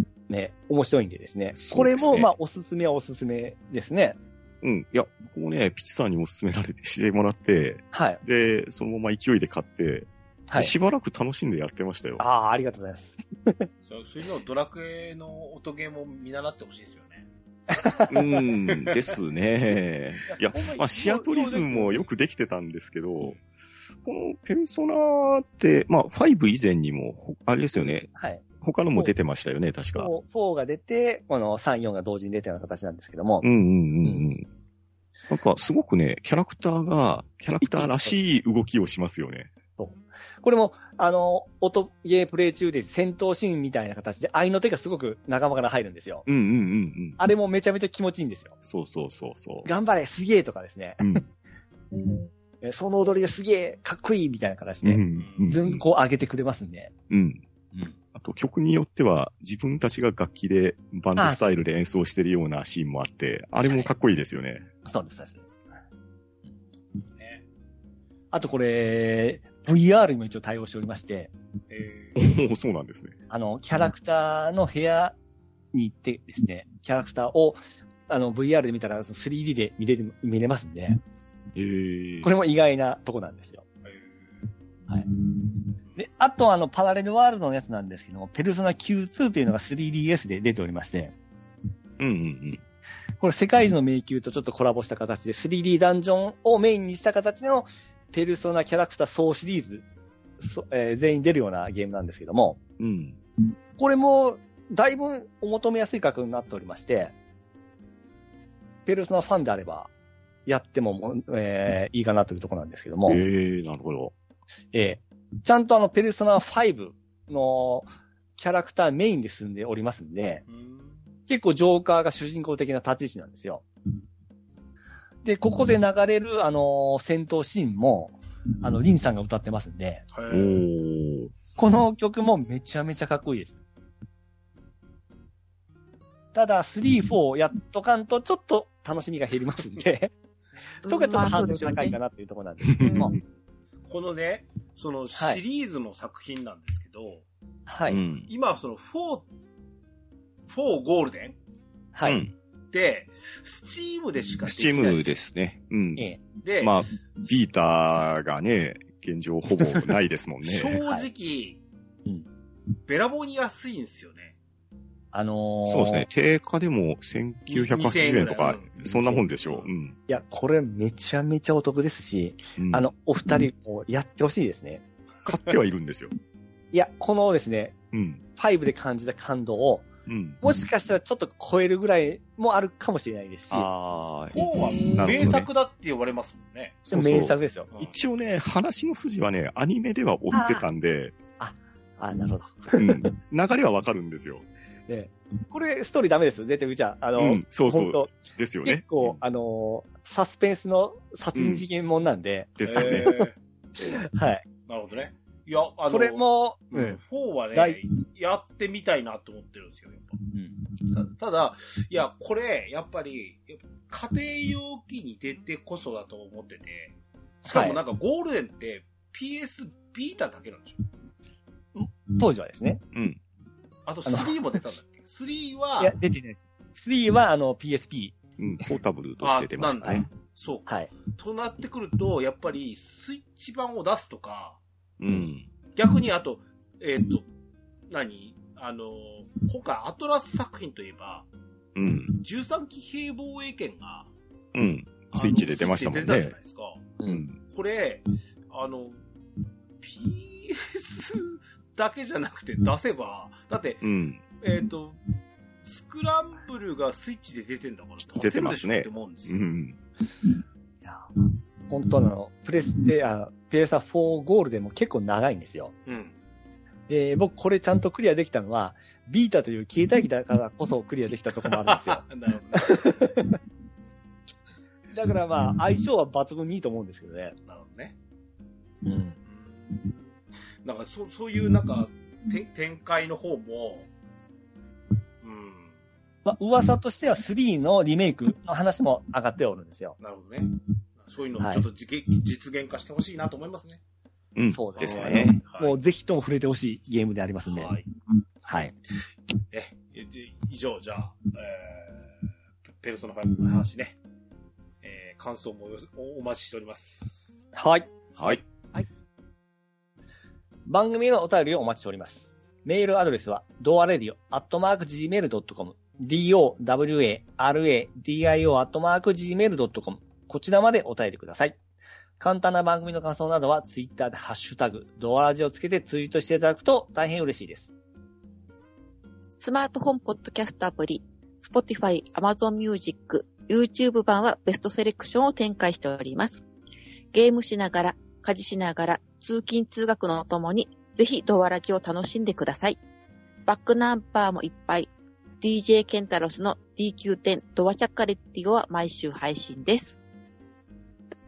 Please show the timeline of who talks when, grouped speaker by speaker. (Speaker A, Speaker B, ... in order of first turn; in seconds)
Speaker A: 0.3-4.2, 7.9-8.2, 12.2-13.7, 17.7-19.0, 20.4-22.1, 27.8-28.4, 29.9-33.5, 37.6-38.1, 39.8-46.3, 47.2-48.5, 49.6-51.0, 52.6-56.9, 61.2-61.4, 64.8-65.5, 68.3-71.3, 73.3-75.2, 75.7-81.0, 82.2-83.6, 84.9-91.2, 93.2-99.8, 100.4-102.6, 103.8-107.1, 108.9-109.9, 110.5-113.2, 114.7-120.4, 121.3-123.7, 125.2-130.0, 131.6-133.6, 136.3-140.1, 140.9-143.2, 145.2-145.4, 147.7-148.0, 151.9-152.2, 159.5-159.9, 165.1-166.1, 168.8-169.3, 170.1-174.8, 176.7-177.8, 178.4-179.9, 180.4-183.7, 186.9-187.7, 190.3-190.7, 191.4-193.1, 194.9-198.1, 198.7-203.1, 203.8-204.4, 205.9-207.0, 207.5-207.8, 210.3-210.7, 217.5-217.8, 221.8-222.8, 224.1-224.3, 225.8-228.2, 260.8-261.1, 261.7-265.7, 266.9-273.4, 274.9-277.4, 278.8-279.2, 286.2-290.0, 291.4-291.6, 294.5-297.8, 298.5-298.7, 307.5-308.1, 310.7-321.6, 322.2-327.7
Speaker B: 1.6-2.3, 4.6-12.2, 18.1-23.4, 24.1-30.1, 33.4-34.5, 35.3-39.5, 46.3-47.2, 48.6-49.7, 51.0-51.3, 54.8-55.8, 57.1-57.4, 58.1-64.7, 72.2-73.2, 81.5-82.3, 92.0-92.6, 102.8-103.2, 113.1-114.1, 130.3-131.3, 142.7-143.2, 147.9-148.3, 152.0-152.3, 154.4-156.1, 156.6-160.8, 165.7-170.0, 172.6-172.9, 175.2-176.1, 177.9-178.2, 180.1-180.4, 183.5-185.5, 186.8-191.1, 192.7-194.4, 197.2-199.2, 201.3-201.6, 202.6-203.2, 222.9-223.2, 228.4-230.1, 235.0-235.5, 241.8-242.1, 244.5-246.4, 247.1-247.4, 253.8-254.2, 258.2-259.8, 294.4-295.4
Speaker C: 13.9-17.3, 55.1-55.6, 71.7-72.3, 83.8-84.4, 120.5-121.1, 130.1-130.7, 143.9-147.2, 148.3-149.3, 150.5-151.4, 152.7-155.1, 156.4-156.8, 160.4-161.6, 162.9-164.3, 167.5-168.7, 169.4-169.7, 184.3-186.8, 202.7-203.4, 204.7-210.2, 210.9-220.8, 223.9-225.9, 229.2-234.6, 235.8-237.3, 237.9-241.3, 242.2-244.1, 245.1-249.0, 249.8-253.8, 254.4-255.0, 255.6-259.4, 265.9-266.2, 271.3-273.1, 277.5-277.9, 279.3-283.9, 285.2-285.7, 290.0-293.8, 294.8-295.8, 297.4-297.9, 299.5-304.0, 304.8-307.4
Speaker D: 51.9-52.3, 140.8-141.9, 142.8-143.1, 184.4-185.2, 329.4-336.4, 337.1-342.8, 343.5-344.9, 345.4-350.0